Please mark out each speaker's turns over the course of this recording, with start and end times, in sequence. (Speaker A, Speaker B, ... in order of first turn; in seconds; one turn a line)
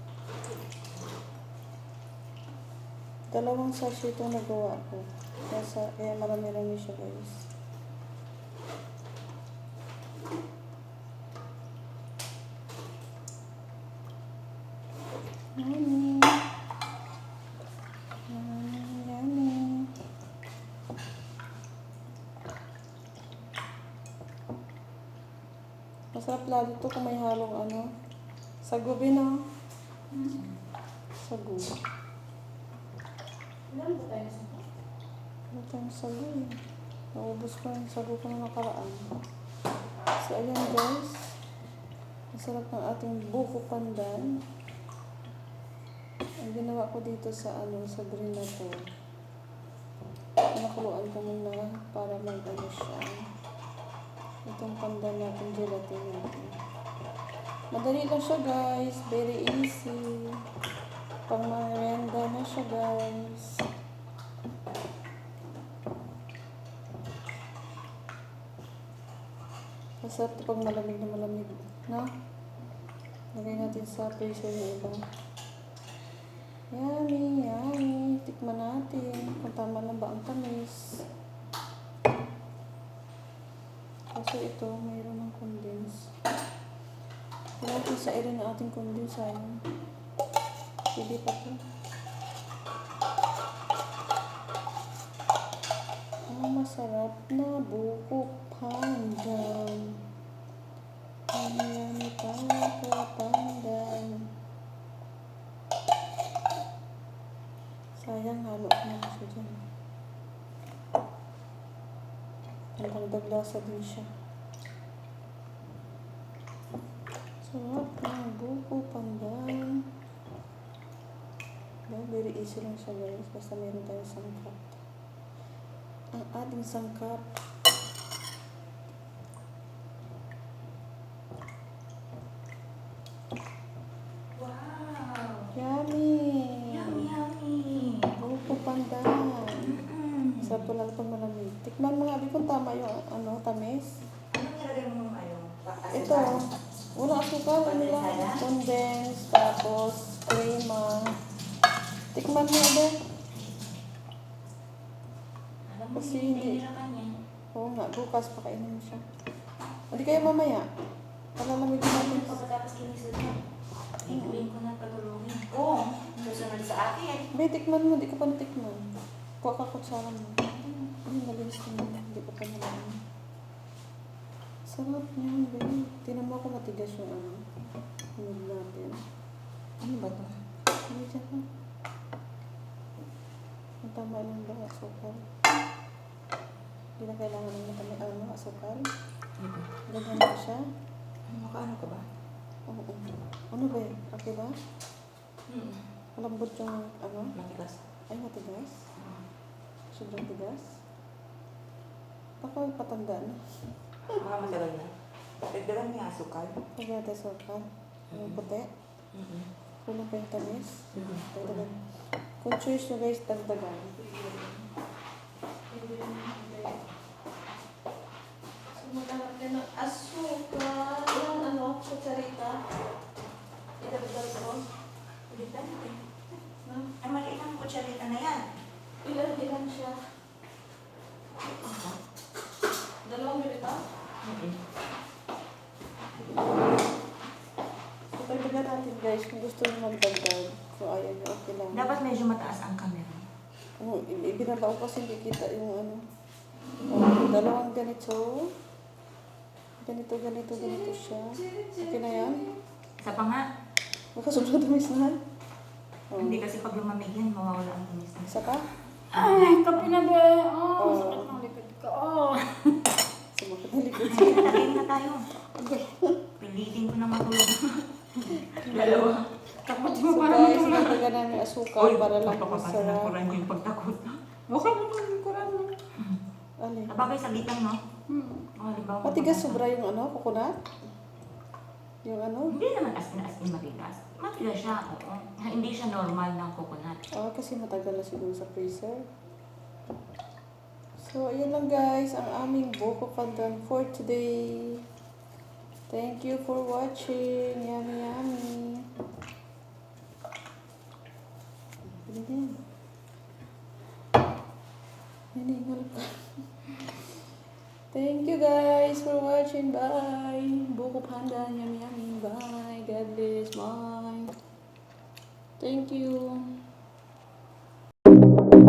Speaker A: 3.3-7.5
Speaker A: 15.6-16.4
Speaker A: 18.3-20.0
Speaker A: 26.1-27.9
Speaker A: 28.6-29.4
Speaker A: 31.2-31.8
Speaker B: 33.7-34.5
Speaker C: 33.8-34.6
Speaker A: 35.5-36.6
Speaker A: 37.1-39.1
Speaker A: 40.2-41.3
Speaker A: 42.3-44.4
Speaker A: 46.4-48.8
Speaker A: 50.5-53.2
Speaker A: 54.5-56.6
Speaker A: 57.7-60.4
Speaker A: 61.3-63.6
Speaker A: 70.0-72.1
Speaker A: 73.3-75.0
Speaker A: 76.7-81.0
Speaker A: 84.1-86.0
Speaker A: 87.6-89.6
Speaker A: 90.9-91.6
Speaker A: 96.3-100.0
Speaker A: 101.3-104.3
Speaker A: 108.0-109.6
Speaker A: 112.8-114.1
Speaker A: 117.4-119.8
Speaker A: 121.9-124.8
Speaker A: 126.1-127.3
Speaker C: 134.3-135.5
Speaker A: 135.5-137.1
Speaker C: 136.7-138.1
Speaker A: 138.2-139.8
Speaker C: 139.5-140.7
Speaker A: 140.4-143.9
Speaker C: 144.3-146.4
Speaker A: 145.9-146.4
Speaker A: 146.9-151.1
Speaker C: 147.6-148.4
Speaker A: 152.1-152.9
Speaker C: 155.7-157.1
Speaker A: 155.9-156.6
Speaker A: 157.5-159.0
Speaker A: 159.9-160.7
Speaker A: 161.4-162.4
Speaker C: 161.8-163.4
Speaker C: 164.0-167.3
Speaker A: 164.1-164.5
Speaker A: 167.3-168.8
Speaker A: 169.4-173.0
Speaker A: 174.7-177.4
Speaker A: 178.2-179.0
Speaker C: 179.8-180.3
Speaker A: 180.9-181.4
Speaker A: 183.8-185.2
Speaker A: 187.0-188.9
Speaker C: 189.4-189.7
Speaker A: 189.9-190.6
Speaker C: 191.3-192.1
Speaker A: 192.7-194.5
Speaker C: 195.5-195.8
Speaker A: 196.2-197.3
Speaker C: 197.3-197.8
Speaker A: 198.1-198.8
Speaker A: 199.9-200.7
Speaker A: 202.4-203.4
Speaker C: 204.2-204.9
Speaker C: 205.5-206.6
Speaker A: 206.8-208.7
Speaker C: 208.1-208.4
Speaker C: 209.1-209.5
Speaker A: 209.8-211.8
Speaker C: 210.9-211.7
Speaker A: 212.4-214.1
Speaker C: 214.0-214.6
Speaker A: 215.7-216.8
Speaker A: 218.7-222.6
Speaker A: 223.8-224.6
Speaker C: 225.3-226.0
Speaker A: 226.6-226.9
Speaker C: 227.0-228.4
Speaker A: 229.0-230.0
Speaker C: 231.4-232.0
Speaker A: 233.0-233.8
Speaker C: 234.2-234.6
Speaker A: 238.2-241.9
Speaker C: 241.7-243.2
Speaker A: 243.8-246.0
Speaker A: 246.9-248.5
Speaker A: 249.8-252.5
Speaker B: 251.4-252.4
Speaker C: 253.0-253.4
Speaker A: 254.2-255.2
Speaker A: 256.1-256.4
Speaker C: 256.2-258.4
Speaker A: 258.3-258.7
Speaker C: 259.1-260.0
Speaker B: 259.1-262.8
Speaker A: 260.8-261.4
Speaker A: 263.3-264.9
Speaker C: 264.1-265.3
Speaker B: 265.6-265.8
Speaker A: 265.6-266.2
Speaker C: 266.4-269.2
Speaker A: 268.3-269.2
Speaker B: 269.6-271.0
Speaker A: 269.8-273.1
Speaker C: 270.8-271.0
Speaker C: 271.8-274.2
Speaker B: 274.5-274.8
Speaker A: 274.5-275.8
Speaker A: 276.6-276.9
Speaker C: 276.9-277.8
Speaker B: 278.1-278.5
Speaker C: 278.5-279.6
Speaker A: 279.0-280.5
Speaker A: 282.0-282.6
Speaker C: 282.5-287.0
Speaker A: 287.1-289.0
Speaker A: 291.0-294.9
Speaker A: 295.9-298.9
Speaker A: 301.9-302.6
Speaker A: 305.3-306.2
Speaker A: 307.9-314.3
Speaker A: 315.6-316.5